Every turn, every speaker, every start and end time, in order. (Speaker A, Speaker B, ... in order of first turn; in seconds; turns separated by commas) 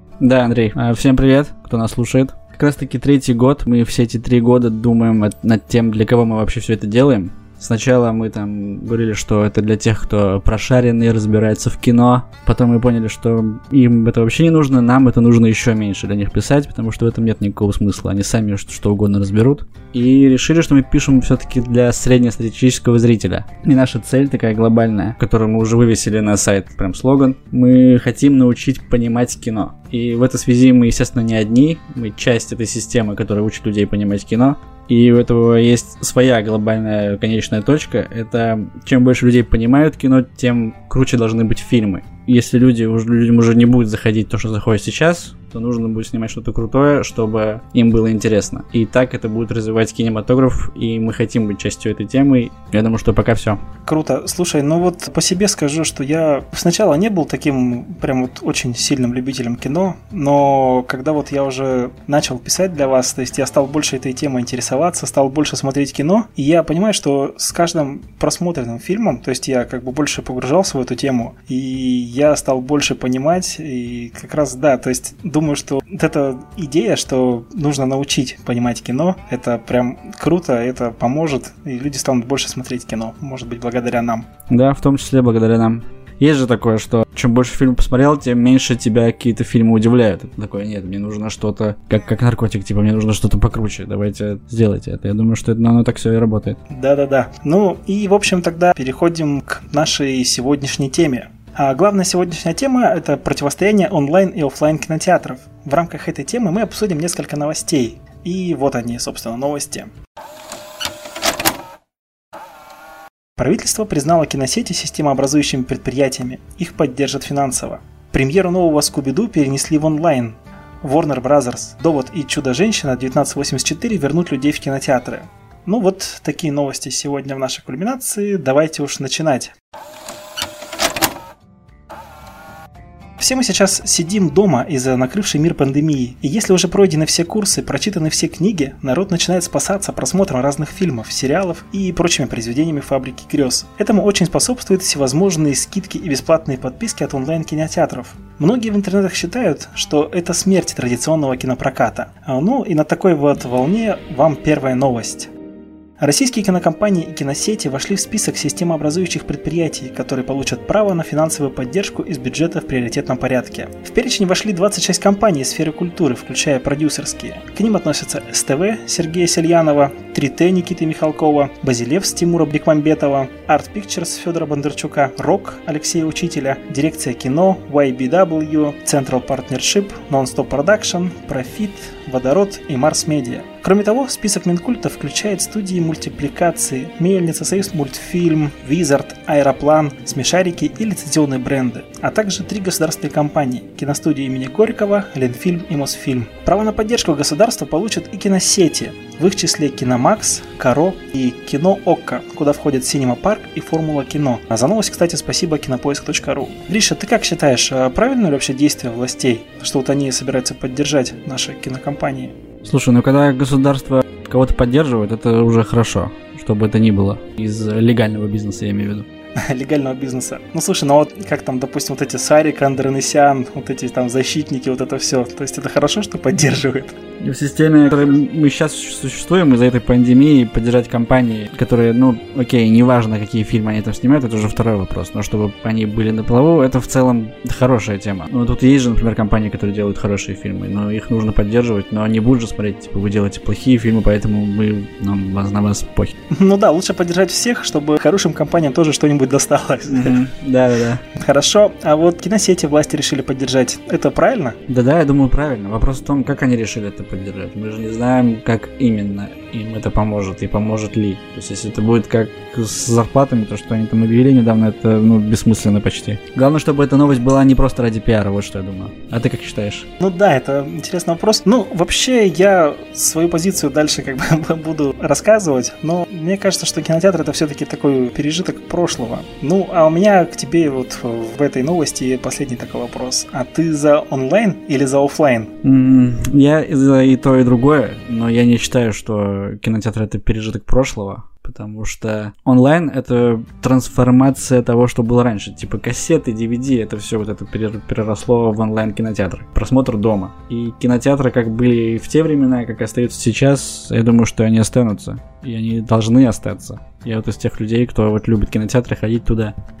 Speaker A: 0.2-53.6, Speaker B: 53.9-84.3, Speaker A: 84.5-96.6, Speaker B: 96.7-109.9, Speaker B: 113.4-129.5, Speaker B: 133.2-155.3, Speaker B: 156.0-212.3, Speaker A: 212.6-219.1, Speaker B: 219.4-227.0, Speaker A: 227.2-246.1, Speaker B: 246.3-250.2, Speaker A: 249.9-251.0, Speaker B: 251.1-254.6, Speaker A: 254.7-269.9, Speaker B: 270.0-285.5, Speaker A: 285.6-309.5